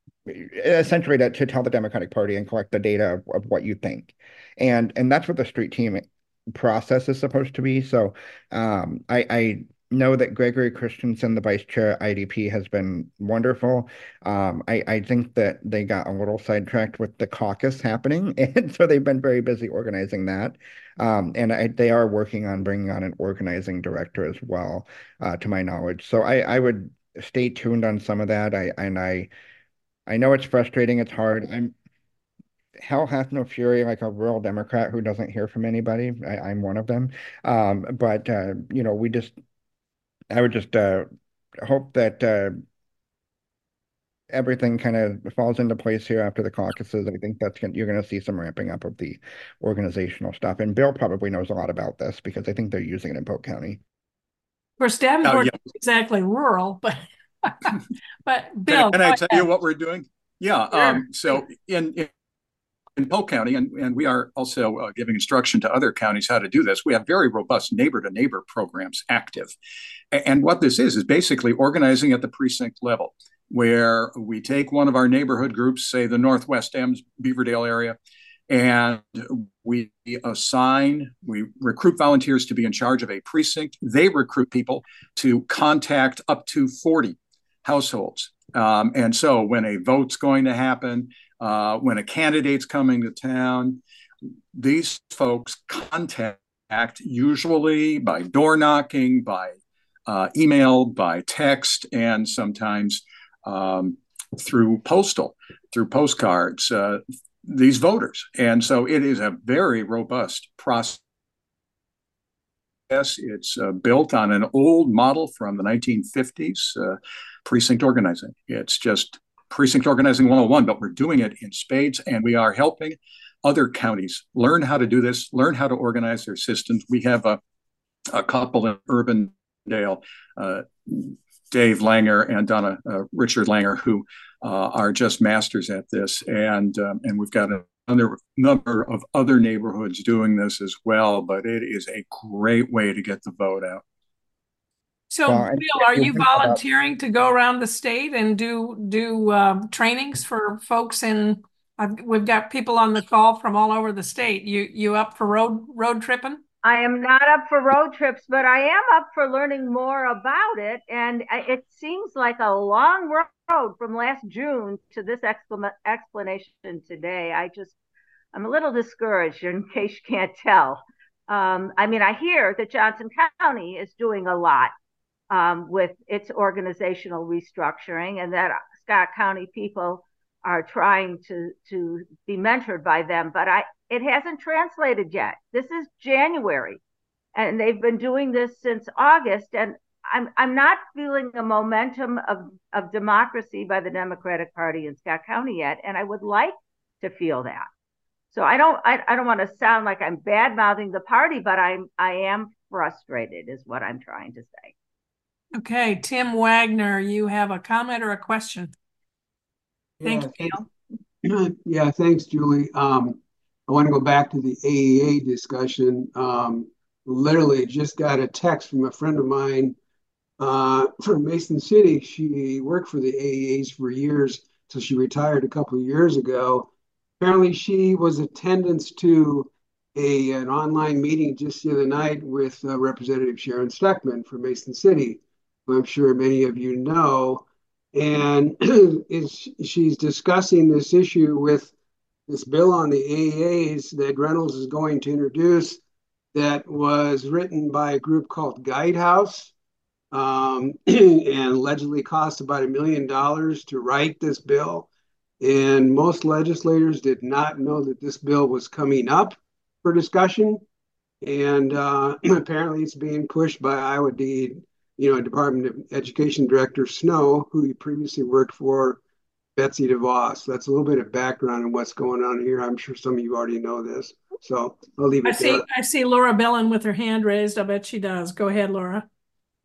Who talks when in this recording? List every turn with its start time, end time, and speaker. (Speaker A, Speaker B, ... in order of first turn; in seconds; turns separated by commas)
Speaker A: 0.3-29.3, Speaker A: 30.1-31.7, Speaker A: 32.8-39.3, Speaker A: 40.3-41.1, Speaker A: 41.6-42.6, Speaker A: 44.3-53.8, Speaker B: 54.8-59.5, Speaker C: 55.2-55.5, Speaker C: 58.7-62.1, Speaker B: 60.7-61.0, Speaker C: 63.0-69.5, Speaker C: 70.1-78.0, Speaker C: 78.5-93.8, Speaker C: 94.5-99.5, Speaker C: 100.1-111.0, Speaker C: 112.9-127.4, Speaker C: 128.1-143.8, Speaker B: 145.1-156.4, Speaker A: 145.2-146.6, Speaker D: 156.6-167.7, Speaker D: 168.3-174.7, Speaker D: 175.3-186.8, Speaker D: 187.3-197.7, Speaker D: 198.3-204.7, Speaker B: 205.6-208.7, Speaker E: 210.0-210.6, Speaker B: 210.0-210.6, Speaker E: 211.2-219.8, Speaker E: 220.4-241.7, Speaker E: 242.3-245.8, Speaker E: 246.3-249.5, Speaker E: 250.1-254.9, Speaker E: 255.4-260.6, Speaker E: 261.2-269.0, Speaker E: 269.6-275.6, Speaker B: 275.2-279.1